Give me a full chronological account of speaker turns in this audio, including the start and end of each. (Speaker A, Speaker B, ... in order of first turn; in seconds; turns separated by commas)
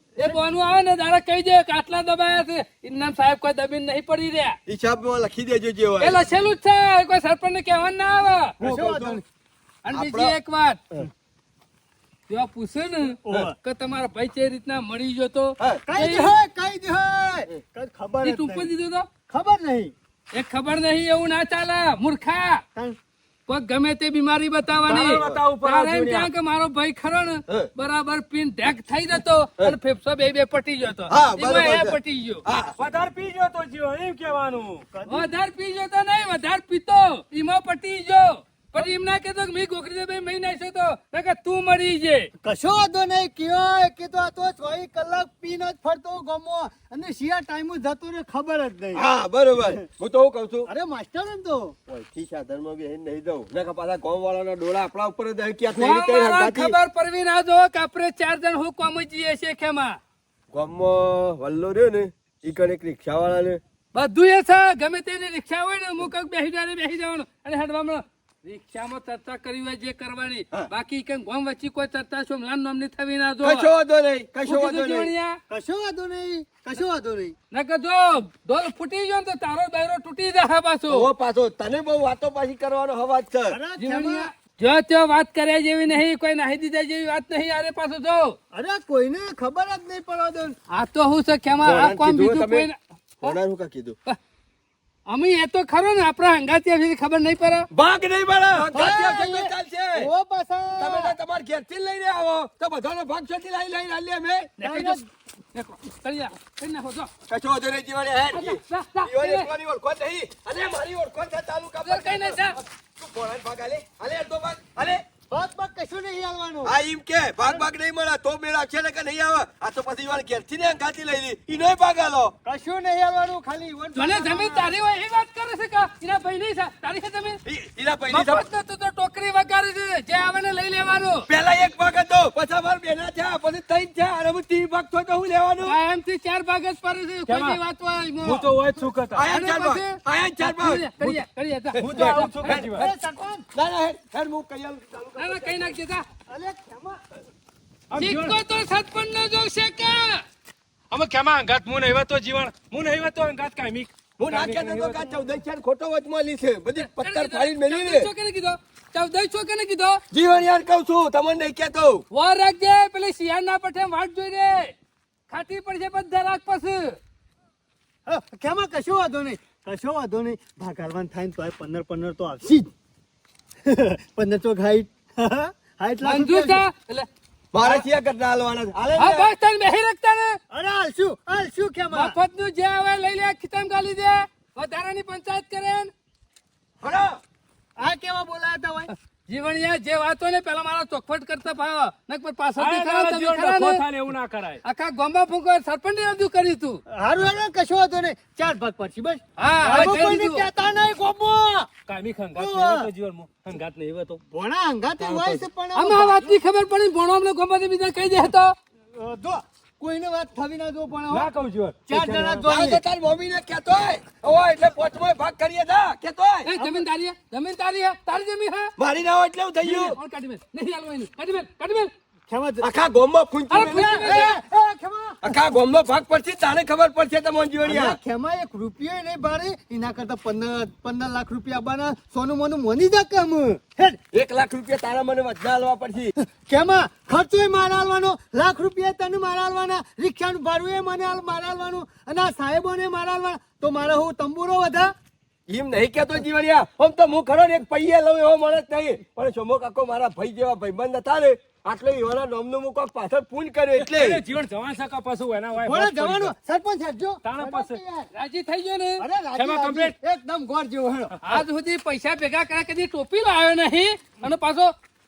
Speaker A: 0.2-4.6, Speaker B: 4.7-6.2, Speaker A: 6.0-8.6, Speaker B: 8.6-9.2, Speaker C: 8.6-9.2, Speaker A: 9.8-10.8, Speaker B: 9.9-10.3, Speaker A: 12.3-16.3, Speaker C: 13.2-13.6, Speaker C: 15.9-18.7, Speaker A: 18.2-19.1, Speaker C: 19.3-19.9, Speaker A: 20.3-22.6, Speaker A: 23.5-32.4, Speaker D: 24.9-26.3, Speaker B: 25.0-25.4, Speaker B: 31.1-32.8, Speaker D: 32.8-34.9, Speaker C: 34.9-35.3, Speaker A: 35.1-42.3, Speaker C: 42.4-49.0, Speaker B: 48.9-50.7, Speaker C: 50.7-51.8, Speaker B: 51.9-56.8, Speaker A: 55.8-60.0, Speaker B: 60.5-63.6, Speaker A: 64.0-73.7, Speaker B: 73.4-75.1, Speaker A: 74.5-75.4, Speaker C: 75.5-77.3, Speaker A: 77.5-81.1, Speaker B: 80.9-83.6, Speaker C: 83.5-84.3, Speaker A: 83.8-88.4, Speaker C: 88.5-90.6, Speaker A: 90.7-93.4, Speaker B: 91.6-92.7, Speaker B: 93.2-94.0, Speaker A: 95.1-97.7, Speaker B: 97.7-100.1, Speaker C: 98.7-101.1, Speaker B: 100.8-104.5, Speaker A: 104.6-107.1, Speaker C: 104.6-105.0, Speaker B: 107.3-115.0, Speaker A: 108.3-109.5, Speaker A: 111.8-112.6, Speaker C: 115.3-116.8, Speaker B: 116.7-122.3, Speaker C: 122.5-124.8, Speaker A: 124.0-127.4, Speaker B: 127.5-128.4, Speaker A: 128.1-131.3, Speaker B: 131.3-135.8, Speaker A: 135.6-138.5, Speaker D: 137.3-137.6, Speaker D: 138.2-139.2, Speaker B: 139.1-141.2, Speaker A: 139.3-142.3, Speaker B: 141.8-142.9, Speaker D: 141.8-142.8, Speaker C: 142.0-143.5, Speaker B: 143.5-145.8, Speaker A: 145.2-146.1, Speaker C: 146.3-147.0, Speaker D: 147.9-148.4, Speaker A: 148.0-150.2, Speaker D: 150.9-155.0, Speaker B: 154.2-158.1, Speaker A: 156.8-160.0, Speaker B: 160.1-162.1, Speaker A: 162.1-164.7, Speaker A: 165.3-167.0, Speaker C: 168.1-172.7, Speaker C: 173.6-176.6, Speaker A: 176.0-177.1, Speaker B: 177.5-179.3, Speaker A: 179.0-180.4, Speaker C: 180.5-182.2, Speaker A: 181.9-185.9, Speaker B: 186.8-187.2, Speaker C: 187.8-188.9, Speaker A: 189.3-193.8, Speaker D: 192.6-194.6, Speaker A: 194.7-196.8, Speaker C: 196.9-201.7, Speaker A: 199.4-200.4, Speaker D: 201.9-204.2, Speaker C: 202.3-202.9, Speaker C: 204.3-206.4, Speaker D: 205.0-205.4, Speaker A: 205.8-208.5, Speaker C: 209.0-211.3, Speaker D: 211.1-212.4, Speaker C: 211.9-212.8, Speaker B: 212.4-216.5, Speaker A: 216.5-218.7, Speaker C: 216.6-216.8, Speaker B: 218.8-220.0, Speaker A: 219.6-221.9, Speaker C: 222.3-222.7, Speaker B: 222.6-224.1, Speaker A: 223.5-224.4, Speaker C: 223.6-225.4, Speaker B: 225.2-228.0, Speaker C: 227.6-234.0, Speaker B: 234.1-236.2, Speaker C: 236.2-244.9, Speaker B: 245.5-254.2, Speaker D: 253.8-256.4, Speaker C: 255.5-258.1, Speaker D: 257.2-257.8, Speaker A: 258.1-259.1, Speaker C: 259.0-261.2, Speaker D: 259.4-259.9, Speaker D: 261.1-261.4, Speaker A: 261.3-264.7